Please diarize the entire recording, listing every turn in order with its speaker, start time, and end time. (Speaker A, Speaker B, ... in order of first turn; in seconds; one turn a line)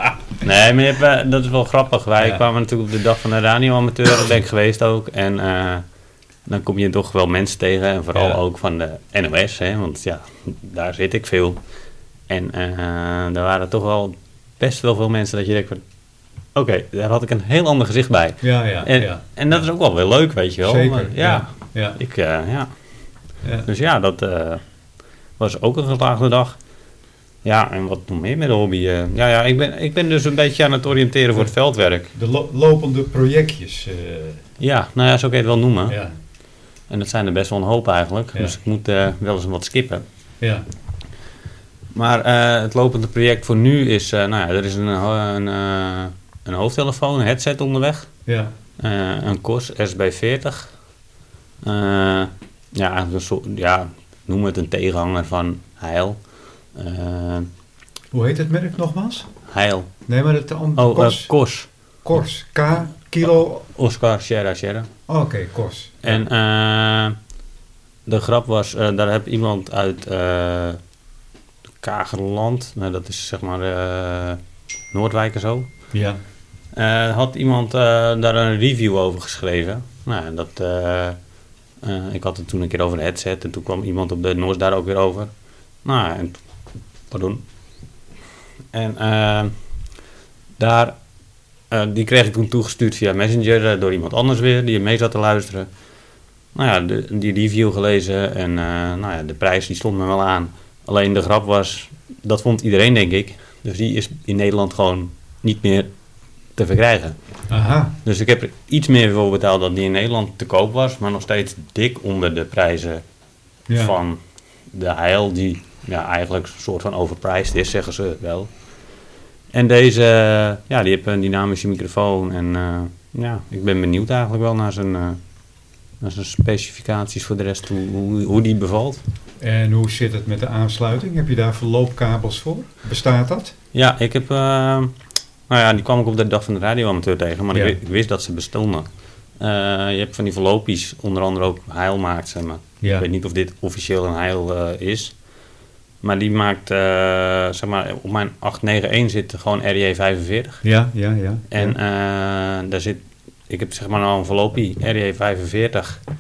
Speaker A: 0.4-5.8
Speaker A: 6.5-11.6
Speaker B: 8.1-8.4
Speaker A: 12.3-15.8
Speaker A: 16.6-22.7
Speaker B: 18.4-19.6
Speaker B: 20.6-22.0
Speaker B: 23.4-23.7
Speaker A: 23.7-24.6
Speaker A: 25.4-26.6
Speaker A: 27.4-32.1
Speaker B: 32.1-34.4
Speaker A: 34.6-36.0
Speaker B: 35.9-36.1
Speaker A: 36.9-40.0
Speaker A: 41.9-48.1
Speaker B: 48.3-48.5
Speaker A: 48.8-50.7
Speaker A: 51.6-56.2
Speaker A: 56.7-57.5
Speaker B: 58.1-59.3
Speaker A: 59.5-59.9
Speaker B: 60.1-61.3
Speaker A: 60.8-61.7
Speaker B: 62.0-63.6
Speaker A: 63.4-64.9
Speaker B: 65.1-66.2
Speaker A: 66.0-67.2
Speaker A: 68.1-70.8
Speaker A: 71.8-74.4
Speaker A: 74.9-75.7
Speaker B: 75.9-76.2
Speaker A: 76.7-81.2
Speaker A: 81.8-85.3
Speaker A: 85.8-86.4
Speaker A: 87.1-87.4
Speaker A: 88.7-89.5
Speaker A: 90.6-91.0
Speaker A: 91.7-95.7
Speaker A: 96.5-105.9
Speaker A: 106.5-107.2
Speaker B: 107.5-108.0
Speaker A: 108.0-113.0
Speaker B: 113.7-114.0
Speaker A: 113.7-114.2
Speaker A: 114.7-118.5
Speaker A: 119.5-125.2
Speaker A: 126.0-129.0
Speaker B: 129.4-133.5
Speaker A: 133.7-134.9
Speaker A: 135.5-138.9
Speaker A: 139.4-145.2
Speaker A: 146.0-150.7
Speaker B: 150.6-151.8
Speaker A: 151.5-156.0